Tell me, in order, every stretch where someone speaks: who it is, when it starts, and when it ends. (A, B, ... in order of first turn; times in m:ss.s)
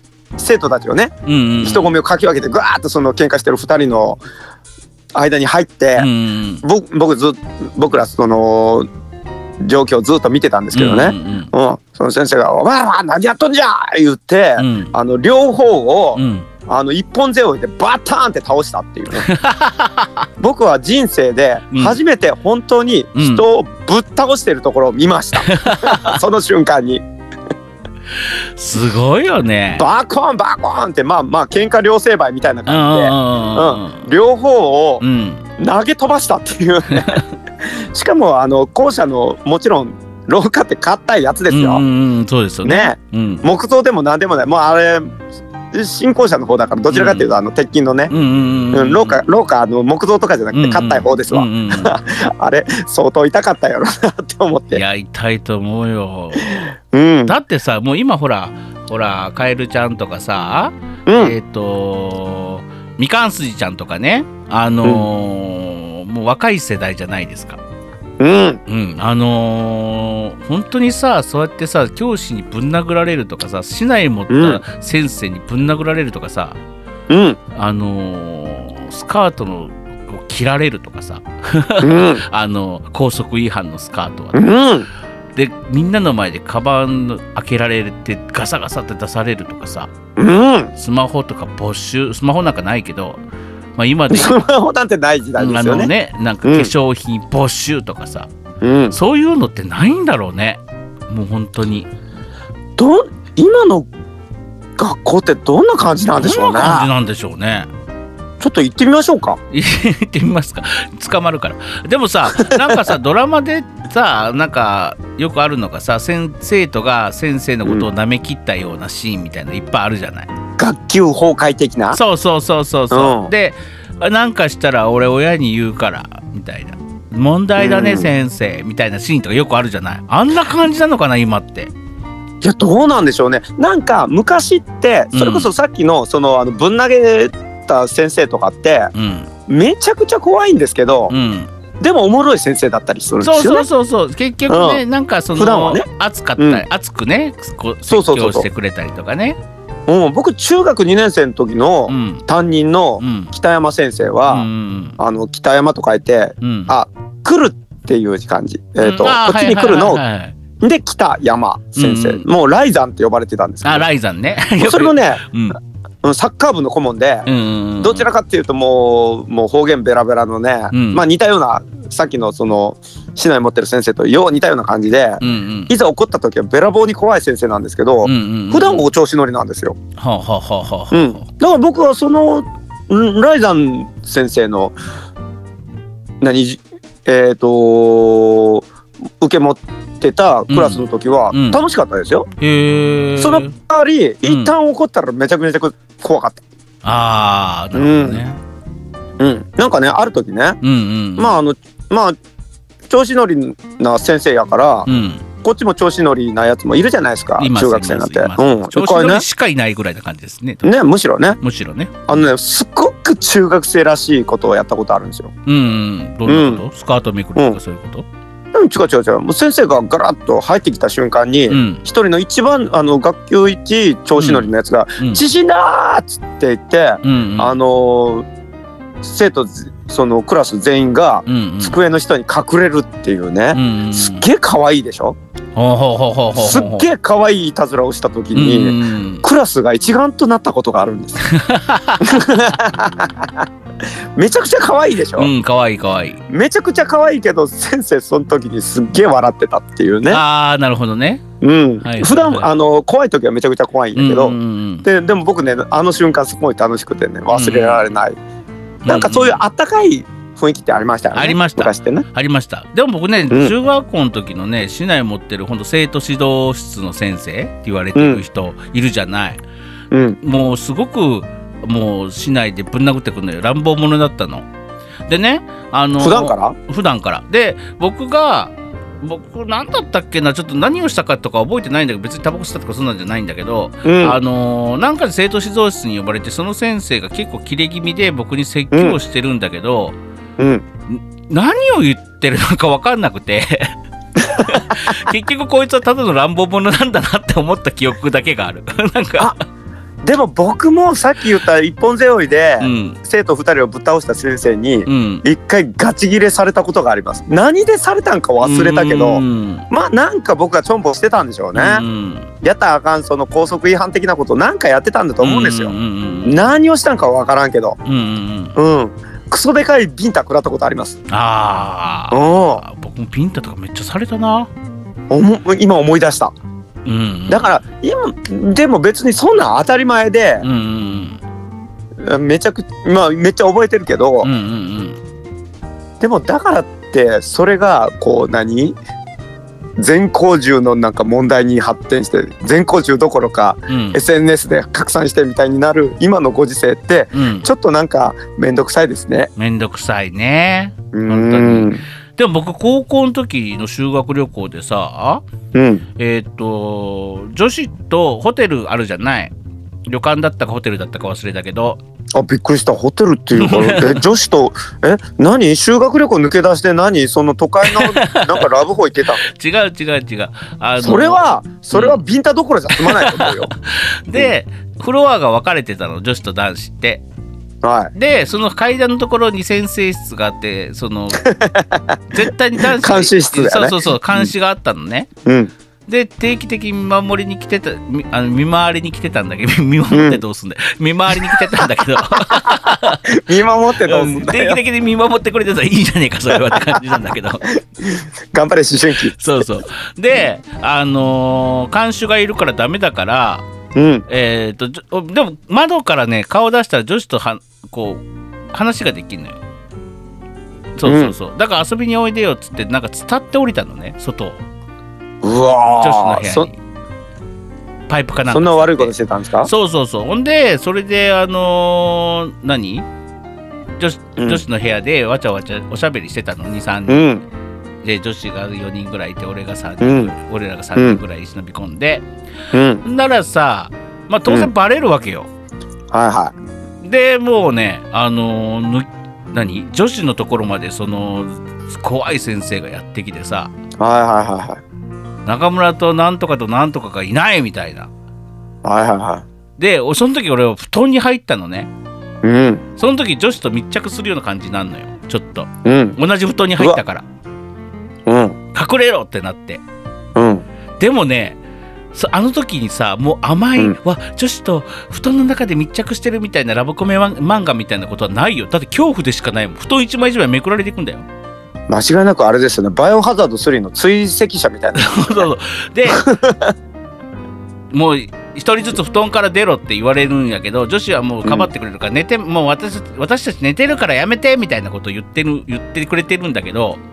0:00.4-0:04.2 A
0:01.2-0:01.9 B
0:05.1-0:06.1 A
0:06.0-0:06.6 B
0:06.6-0:08.8 A
0:09.6-0:19.3 A
0:10.7-0:11.5 B
0:14.6-0:14.9 B
0:16.1-0:16.5 B
0:19.1-0:20.3 B
0:20.4-0:27.0 A
0:21.7-0:22.0 B
0:23.2-0:23.4 B
0:25.4-0:26.2 B
0:28.6-0:29.8 B
0:29.8-0:35.0 A
0:32.7-0:34.1 B
0:35.0-0:35.4 B
0:35.6-0:41.8 A
0:36.9-0:37.2 B
0:41.5-0:43.4 B
0:42.6-0:45.2 A
0:45.7-0:48.1 A
0:46.9-0:47.3 B
0:48.1-0:49.2 B
0:48.7-0:54.8 A
0:50.5-0:51.9 B
0:54.7-0:56.6 B
0:56.9-0:57.3 A
0:57.2-1:07.6 B
1:01.0-1:01.3 A
1:08.2-1:08.6 A
1:08.7-1:16.6 B
1:14.3-1:14.6 A
1:17.1-1:17.4 A
1:17.5-1:24.4 B
1:21.8-1:22.2 A
1:24.3-1:24.9 A
1:25.4-1:29.9 B
1:30.2-1:30.7 A
1:30.8-1:33.2 B
1:33.8-1:34.4 B
1:34.1-1:35.9 A
1:35.4-1:38.3 B
1:36.4-1:36.7 A
1:38.6-1:39.0 A
1:38.9-1:41.9 B
1:42.8-1:43.9 A
1:44.8-1:46.9 A
1:46.1-1:47.7 B
1:48.4-1:49.4 A
1:49.5-2:00.3 B
1:52.4-1:52.9 A
2:00.6-2:02.0 A
2:01.9-2:11.7 B
2:02.9-2:03.3 A
2:07.6-2:08.1 A
2:12.4-2:18.9 A
2:15.1-2:15.5 B
2:18.9-2:19.3 B
2:19.5-2:21.1 A
2:21.1-2:21.5 B
2:21.8-2:23.6 A
2:23.2-2:29.4 B
2:24.5-2:24.8 A
2:25.3-2:25.9 A
2:26.4-2:26.6 A
2:27.9-2:28.4 A
2:29.9-2:34.5 A
2:31.9-2:32.2 B
2:33.0-2:33.3 B
2:34.3-2:35.0 B
2:35.0-2:40.0 A
2:36.4-2:36.7 B
2:38.8-2:40.4 B
2:40.6-2:43.9 A
2:41.7-2:42.2 B
2:43.6-2:45.6 B
2:44.6-2:45.2 A
2:46.0-2:47.3 A
2:47.2-2:48.1 B
2:47.8-2:59.8 A
2:50.7-2:51.0 B
2:55.2-2:55.7 B
2:58.0-2:58.8 B
3:00.0-3:01.2 B
3:00.9-3:04.7 A
3:06.2-3:08.7 A
3:09.2-3:12.3 A
3:10.5-3:11.6 B
3:12.4-3:13.6 B
3:13.2-3:16.4 A
3:14.2-3:14.5 B
3:16.8-3:18.4 B
3:17.7-3:18.2 A
3:19.2-3:20.6 A
3:20.6-3:21.4 B
3:21.2-3:22.1 A
3:22.9-3:24.9 A
3:24.8-3:25.2 B
3:25.4-3:29.2 A
3:27.4-3:30.7 B
3:30.6-3:31.4 A
3:31.4-3:32.0 B
3:32.1-3:35.3 A
3:35.4-3:38.0 B
3:36.2-3:36.6 A
3:38.5-3:48.2 A
3:41.5-3:41.8 B
3:44.2-3:45.2 B
3:47.0-3:47.5 B
3:49.0-3:55.2 A
3:51.2-3:51.8 B
3:53.5-3:54.3 B
3:55.6-3:56.9 B
3:56.3-4:01.2 A
3:58.3-3:59.2 B
4:01.2-4:02.2 B
4:02.0-4:03.4 A
4:04.2-4:05.3 A
4:05.2-4:06.2 B
4:06.3-4:10.2 A
4:10.1-4:11.2 B
4:11.4-4:18.2 A
4:11.8-4:12.5 B
4:13.9-4:14.8 B
4:17.3-4:17.9 B
4:18.8-4:19.4 B
4:18.8-4:22.0 A
4:21.1-4:29.4 B
4:28.0-4:28.2 A
4:29.9-4:30.2 A
4:30.2-4:34.5 B
4:35.1-4:50.0 B
4:36.0-4:36.6 A
4:43.8-4:44.2 A
4:48.7-4:49.0 A
4:50.4-4:50.6 A
4:50.9-4:53.7 B
4:54.3-4:59.4 B
4:54.3-4:54.6 A
5:00.0-5:11.8 A
5:02.6-5:03.0 B
5:04.8-5:05.2 B
5:08.4-5:09.6 B
5:11.5-5:12.3 B
5:12.4-5:15.7 A
5:15.2-5:16.4 B
5:16.2-5:17.8 A
5:17.8-5:18.6 B
5:18.6-5:21.0 A
5:21.1-5:24.5 B
5:22.1-5:22.6 A
5:25.1-5:26.3 A
5:26.8-5:27.5 B
5:27.3-5:30.4 A
5:30.4-5:31.2 B
5:32.0-5:34.3 A
5:34.2-5:35.0 B
5:36.0-5:38.8 A
5:39.8-5:49.3 A
5:43.7-5:44.0 B
5:47.1-5:47.5 B
5:49.4-5:55.2 B
5:50.9-5:51.8 A
5:55.5-5:55.8 A
5:56.0-5:59.3 B
5:59.9-6:01.8 B
6:02.1-6:09.2 A
6:03.4-6:04.0 B
6:07.6-6:08.5 B
6:09.2-6:12.0 B
6:10.8-6:13.5 A
6:12.8-6:17.0 B
6:17.6-6:17.9 A
6:17.9-6:21.2 B
6:21.2-6:22.0 A
6:22.1-6:25.1 B
6:22.6-6:24.3 A
6:25.2-6:25.5 A
6:25.9-6:33.0 B
6:29.9-6:30.2 A
6:31.2-6:34.6 A
6:33.8-6:37.5 B
6:36.3-6:37.0 A
6:37.8-6:39.5 A
6:39.1-6:43.4 B
6:43.7-6:44.0 A
6:44.1-6:49.4 B
6:50.8-6:54.4 B
6:50.8-6:51.1 A
6:55.2-6:56.5 A
6:55.8-6:56.5 B
6:57.9-6:58.9 B
6:58.3-6:59.5 A
6:59.4-7:02.8 B
7:03.8-7:07.1 B
7:04.2-7:04.4 A
7:06.9-7:07.2 A
7:07.8-7:12.0 B
7:09.8-7:10.1 A
7:10.8-7:11.0 A
7:12.5-7:12.8 A
7:12.8-7:15.3 B
7:15.9-7:16.3 A
7:16.8-7:23.5 B
7:23.8-7:24.6 A
7:25.2-7:27.9 B
7:28.6-7:29.2 A
7:29.6-7:31.7 B
7:32.2-7:32.6 A
7:32.8-7:37.0 B
7:35.6-7:36.0 A
7:38.0-7:38.4 A
7:38.5-7:39.6 B
7:40.2-7:40.4 A
7:40.8-7:41.4 B
7:41.9-7:51.0 B
7:51.7-7:55.3 A
7:54.8-7:56.0 B
7:55.9-7:56.5 A
7:57.7-8:06.8 B
8:01.2-8:01.5 A